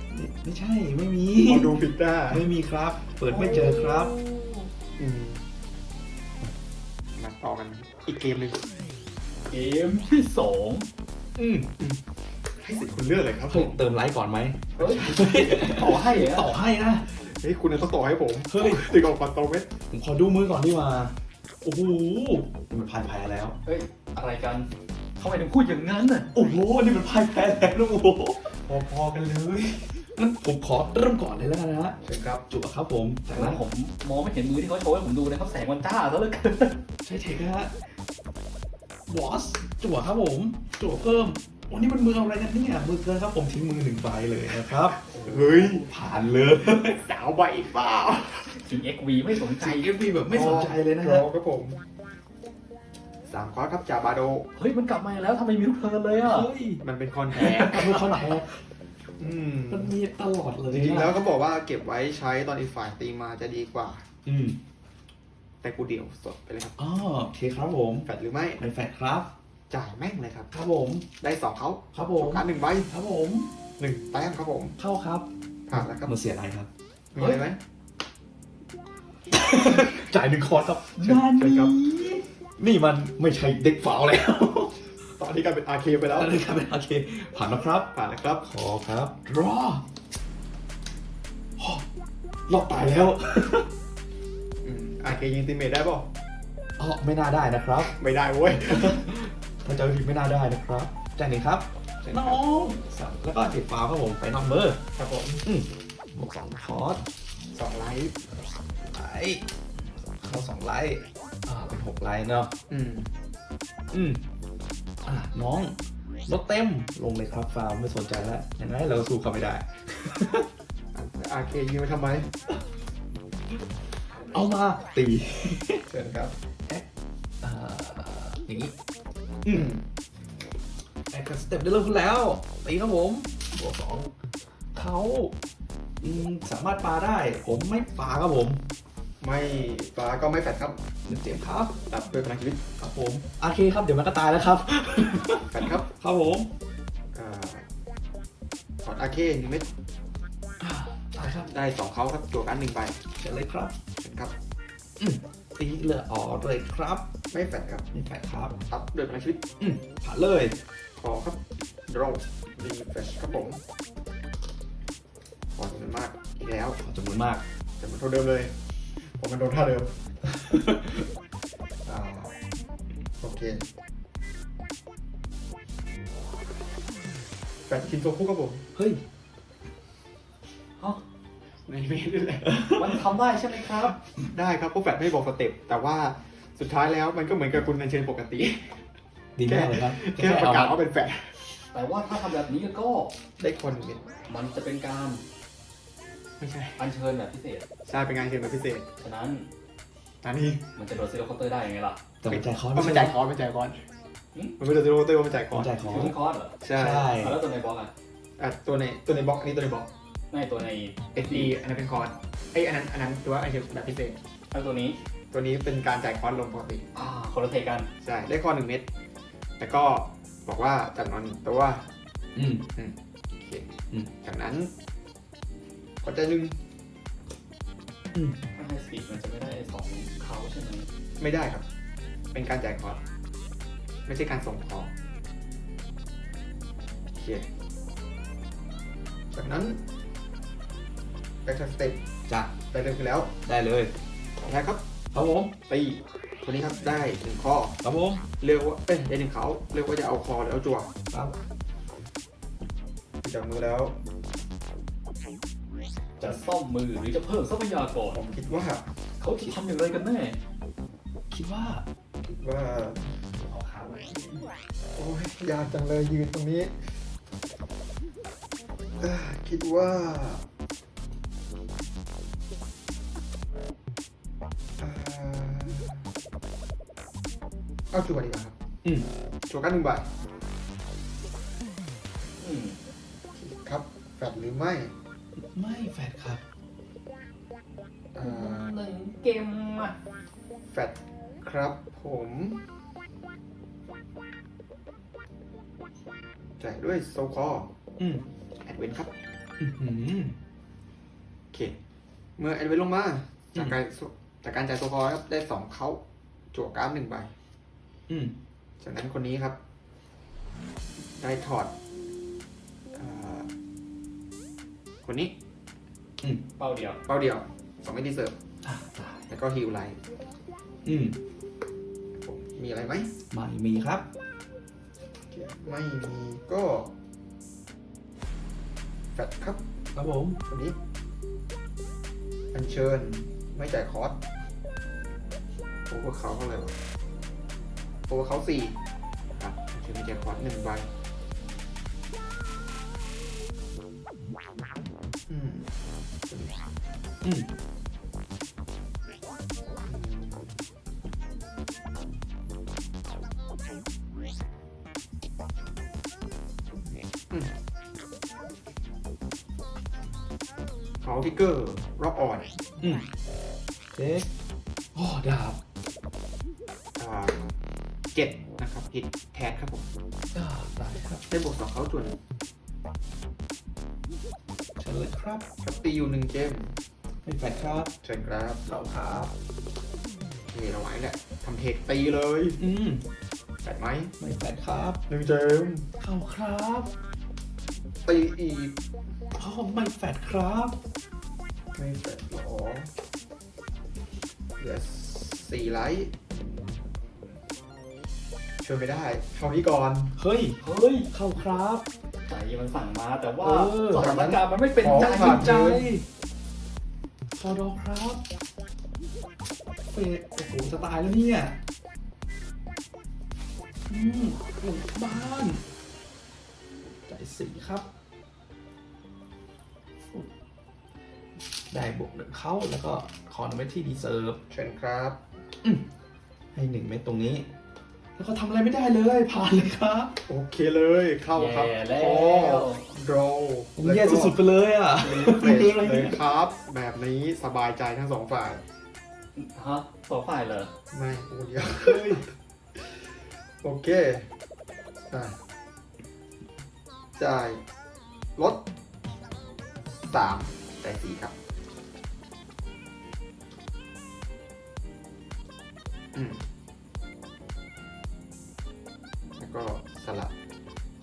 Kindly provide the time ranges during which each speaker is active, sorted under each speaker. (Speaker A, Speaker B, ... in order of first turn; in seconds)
Speaker A: 0.1-4.1, 11.3-11.7, 13.5-17.0, 18.5-18.9, 19.9-23.6, 26.3-28.5, 30.1-32.0, 32.5-33.6, 37.0-37.7, 39.1-44.9, 45.6-47.0, 49.5-51.3, 56.2-56.8, 57.4-58.5, 59.7-61.2, 64.2-64.6, 66.8-68.1, 68.6-69.3, 70.5-71.1, 71.9-73.5, 74.8-76.7, 79.3-84.8, 86.2-87.9, 88.4-89.8, 91.6-91.8, 92.5-93.7, 96.8-97.9, 98.6-104.8, 105.4-107.0, 108.6-112.5, 113.9-114.2, 115.0-120.5, 124.3-125.8, 127.4-128.7, 131.1-134.1, 134.7-135.3, 136.0-138.6, 141.1-141.8, 142.8-146.5, 150.6-151.5, 153.2-153.7, 155.0-157.1, 157.9-158.5, 159.6-160.5, 166.8-167.4, 170.2-171.0, 178.7-179.0, 182.5-182.9, 189.3-190.8, 202.2-203.1, 205.5-206.2, 206.7-207.4, 222.3-222.7, 228.1-228.4, 242.3-242.5, 243.4-243.9, 245.1-245.5, 247.8-248.2, 261.3-261.8, 285.4-286.4, 298.0-298.2, 299.6-300.4, 308.1-308.3, 318.6-319.2, 320.8-321.2, 323.3-324.0, 329.9-330.4, 347.2-347.5, 362.8-363.0, 363.9-364.3, 364.9-365.6, 370.3-371.2, 374.8-375.4, 377.2-377.9, 378.6-379.3, 382.6-383.0, 384.2-385.0, 386.0-386.9, 389.4-390.8, 400.2-400.6, 401.1-401.9, 403.4-404.1, 404.8-406.1, 407.3-408.2, 409.9-411.6, 413.9-415.6, 417.0-417.9, 421.7-424.4, 425.6-425.9, 426.5-427.5, 428.1-430.1, 433.8-436.2, 441.8-442.2
Speaker B: 1.4-2.5, 5.0-5.4, 7.2-8.7, 12.6-13.8, 14.8-15.5, 17.1-19.7, 28.6-30.1, 32.0-32.4, 44.9-45.9, 46.6-48.6, 50.3-51.8, 53.3-54.5, 56.8-58.1, 59.2-59.9, 60.7-64.0, 65.6-66.8, 68.0-68.6, 69.7-70.5, 71.2-72.9, 73.8-74.8, 75.7-76.1, 77.1-77.6, 81.0-81.8, 85.2-86.3, 87.9-88.5, 92.7-93.2, 94.6-96.1, 97.8-99.1, 102.0-102.4, 105.0-105.4, 107.5-108.2, 112.7-113.1, 120.9-122.3, 125.9-126.3, 129.5-129.8, 139.2-140.8, 141.9-142.6, 145.5-145.8, 147.1-147.7, 148.8-149.7, 151.4-153.0, 154.0-154.3, 157.3-157.9, 158.7-159.4, 161.0-163.6, 165.5-166.8, 167.8-168.5, 169.1-170.0, 171.8-172.3, 173.2-173.6, 177.7-178.6, 181.7-182.7, 184.3-188.8, 189.4-191.5, 193.4-194.0, 196.4-196.8, 197.8-198.9, 200.2-200.6, 202.3-203.8, 204.6-207.1, 208.4-209.9, 211.1-214.2, 215.3-216.8, 218.0-218.8, 219.6-221.9, 222.7-224.7, 226.0-226.6, 231.2-231.7, 232.3-233.0, 234.1-234.9, 237.1-237.5, 239.3-239.8, 241.4-242.0, 242.7-243.3, 244.4-244.8, 245.7-247.8, 248.4-250.9, 253.2-253.9, 258.1-258.9, 262.2-263.2, 264.9-266.9, 269.0-270.4, 274.8-276.1, 277.9-278.5, 279.5-280.1, 283.3-284.9, 288.1-288.8, 290.7-292.6, 296.6-297.7, 298.6-299.1, 301.5-301.8, 302.4-307.3, 308.8-309.6, 311.0-311.7, 312.9-313.5, 315.0-315.3, 317.0-318.3, 319.3-320.0, 322.2-323.1, 325.3-326.9, 329.1-329.6, 330.4-330.8, 332.5-334.2, 335.9-336.7, 338.1-338.8, 339.3-340.9, 345.3-345.7, 346.3-346.5, 349.9-350.6, 361.0-362.5, 367.0-367.5, 368.1-369.9, 371.3-372.2, 375.6-376.8, 378.0-378.6, 380.4-382.6, 383.6-384.1, 385.1-385.9, 388.1-388.7, 391.7-392.9, 394.6-396.8, 398.6-400.1, 404.0-405.9, 424.5-425.2, 430.3-434.4, 435.0-438.6, 440.9-442.2, 443.6-444.3, 445.1-445.4, 447.1-447.6, 448.4-448.6, 449.9-451.3, 456.1-456.4, 459.4-460.3
Speaker C: 3.2-4.7, 9.5-10.9, 14.8-16.5, 23.6-26.3, 33.3-36.8, 48.5-50.1, 54.5-56.5, 57.4-58.0, 182.7-183.9, 191.7-193.1, 194.3-195.2, 196.8-197.7, 199.0-199.5, 200.8-202.0, 205.8-207.9, 210.3-211.5, 214.5-215.0, 216.9-217.9, 228.5-230.9, 256.2-258.2, 259.2-260.4, 263.4-264.4, 282.4-282.8, 288.2-289.9, 316.6-317.0, 400.6-401.1, 402.3-405.7, 431.3-432.9, 439.3-440.7